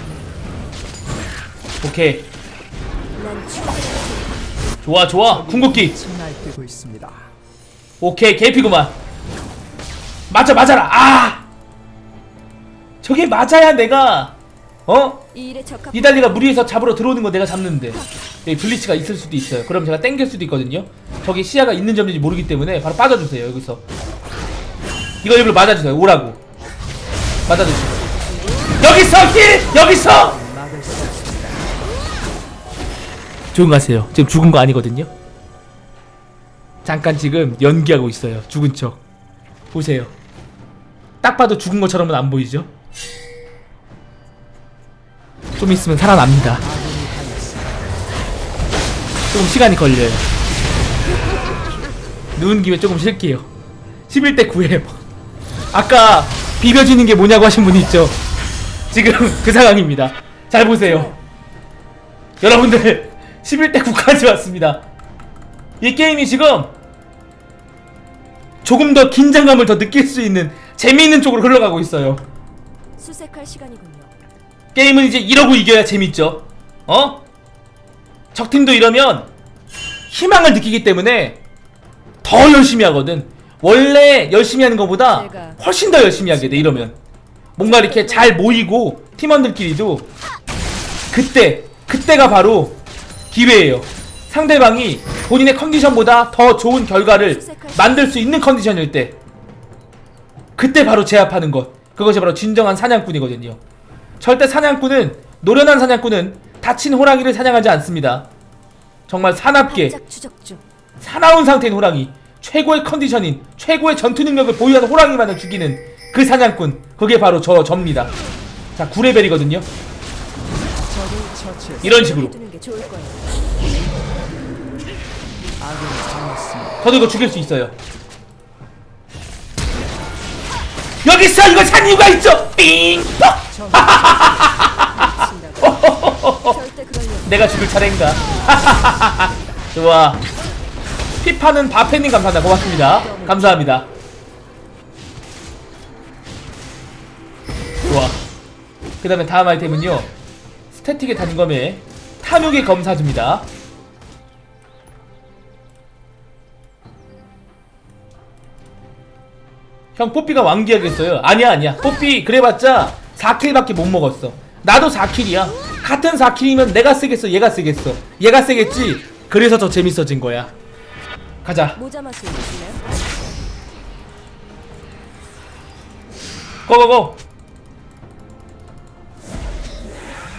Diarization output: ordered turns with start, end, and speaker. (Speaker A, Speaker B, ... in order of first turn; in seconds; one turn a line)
Speaker A: 1.8-2.3
Speaker B: 3.1-4.5
Speaker A: 4.8-5.9
Speaker C: 5.2-7.3
Speaker A: 8.0-9.0
Speaker A: 10.3-11.4
Speaker A: 13.0-15.2
Speaker B: 15.3-16.4
Speaker A: 15.9-23.8
Speaker A: 25.2-26.4
Speaker A: 27.5-28.1
Speaker B: 28.3-28.7
Speaker A: 28.8-30.4
Speaker C: 30.0-31.8
Speaker A: 33.5-35.1
Speaker A: 36.8-39.0
Speaker A: 39.7-40.1
Speaker A: 41.2-42.7
Speaker A: 45.6-46.6
Speaker C: 46.6-48.0
Speaker A: 49.3-50.2
Speaker A: 52.4-53.5
Speaker A: 54.1-55.0
Speaker A: 55.7-58.2
Speaker A: 58.9-61.1
Speaker B: 60.8-61.2
Speaker A: 62.4-64.8
Speaker A: 65.8-66.7
Speaker A: 68.6-72.2
Speaker B: 73.0-74.1
Speaker A: 74.7-77.2
Speaker A: 78.3-79.3
Speaker A: 80.1-81.4
Speaker A: 82.2-87.0
Speaker B: 85.1-86.9
Speaker A: 87.5-90.1
Speaker B: 87.6-88.6
Speaker A: 91.1-99.2
Speaker B: 97.1-98.1
Speaker A: 100.6-103.6
Speaker A: 104.2-108.3
Speaker A: 109.1-110.0
Speaker B: 109.6-110.6
Speaker A: 111.0-118.1
Speaker A: 118.8-119.7
Speaker C: 120.7-122.0
Speaker B: 121.8-123.3
Speaker A: 121.8-122.4
Speaker C: 125.6-126.8
Speaker A: 126.8-127.7
Speaker A: 131.0-136.6
Speaker C: 133.5-134.4
Speaker B: 134.4-137.5
Speaker A: 137.2-140.2
Speaker A: 141.2-143.9
Speaker B: 142.5-143.7
Speaker A: 147.8-148.2
Speaker A: 149.0-150.1
Speaker A: 150.7-153.5
Speaker A: 159.9-170.5
Speaker A: 171.4-171.8
Speaker B: 171.7-172.9
Speaker A: 176.7-177.2